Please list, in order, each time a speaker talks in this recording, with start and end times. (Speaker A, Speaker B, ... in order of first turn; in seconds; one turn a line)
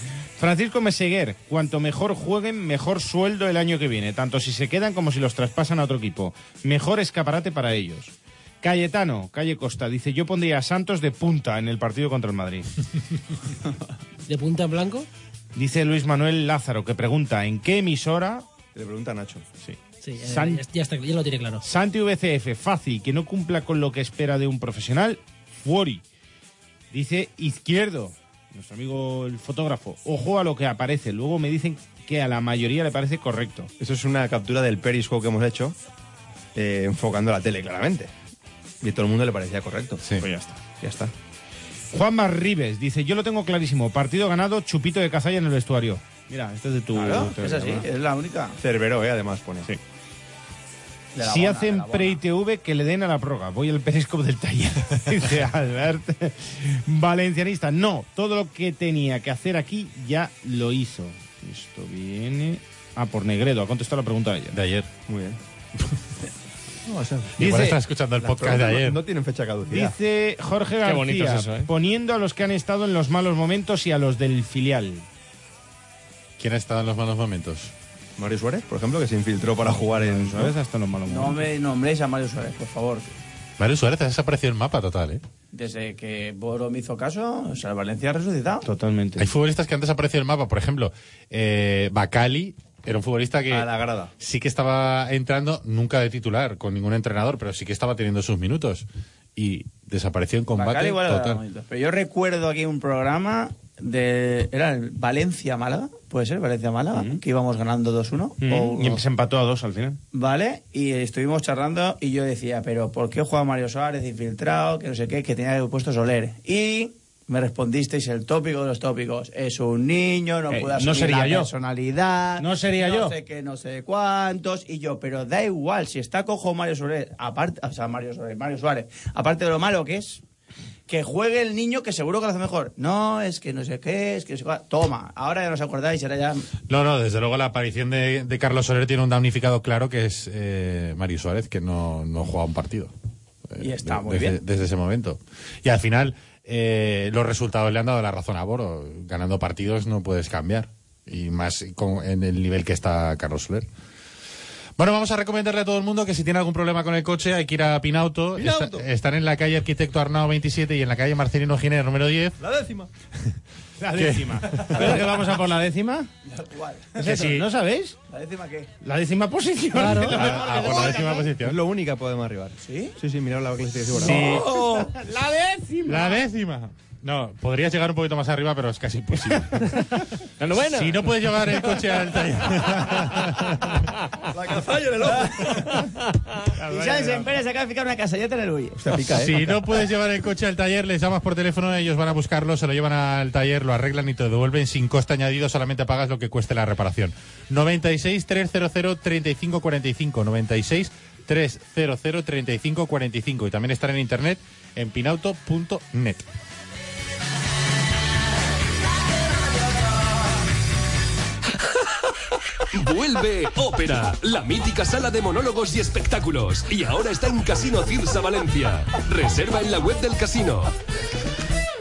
Speaker A: 0.4-12.7
Speaker B: 14.3-15.1
Speaker A: 15.5-18.4
Speaker C: 18.7-19.4
Speaker A: 19.6-20.6
Speaker B: 20.0-21.6
Speaker A: 21.6-26.0
Speaker A: 26.9-33.7
Speaker C: 33.8-35.8
Speaker C: 36.5-38.1
Speaker C: 38.8-40.0
Speaker A: 40.2-41.1
Speaker A: 41.9-47.9
Speaker D: 47.0-48.6
Speaker C: 48.6-49.7
Speaker D: 51.1-52.2
Speaker A: 51.2-64.6
Speaker E: 64.5-64.9
Speaker C: 65.0-65.4
Speaker C: 66.8-69.9
Speaker A: 67.4-67.8
Speaker E: 67.4-69.0
Speaker A: 69.7-75.0
Speaker F: 70.8-71.7
Speaker E: 76.4-77.7
Speaker C: 78.2-80.5
Speaker A: 79.7-81.5
Speaker D: 81.1-83.1
Speaker E: 83.6-85.2
Speaker D: 85.5-88.6
Speaker A: 88.6-89.3
Speaker E: 89.2-93.7
Speaker C: 93.5-94.1
Speaker E: 94.2-101.4
Speaker D: 100.5-109.0
Speaker A: 106.9-107.2
Speaker A: 108.4-110.0
Speaker D: 110.1-130.2
Speaker A: 120.5-121.5
Speaker A: 122.4-123.2
Speaker D: 130.9-136.5
Speaker E: 136.7-142.9
Speaker E: 143.5-153.7
Speaker D: 143.6-144.4
Speaker E: 154.8-162.4
Speaker C: 158.3-158.9
Speaker C: 162.4-162.9
Speaker A: 163.8-166.1
Speaker E: 164.0-164.8
Speaker D: 166.2-167.1
Speaker A: 167.0-167.9
Speaker E: 167.1-167.3
Speaker D: 168.1-168.7
Speaker A: 168.8-171.3
Speaker B: 169.8-170.1
Speaker E: 170.0-171.6
Speaker C: 170.6-174.4
Speaker D: 172.6-172.9
Speaker A: 174.0-176.1
Speaker E: 174.1-174.5
Speaker E: 175.8-180.0
Speaker F: 180.4-181.5
Speaker E: 180.7-183.8
Speaker C: 184.3-185.8
Speaker A: 186.6-187.3
Speaker D: 186.6-189.2
Speaker C: 188.8-189.6
Speaker E: 189.1-206.2
Speaker G: 212.7-220.7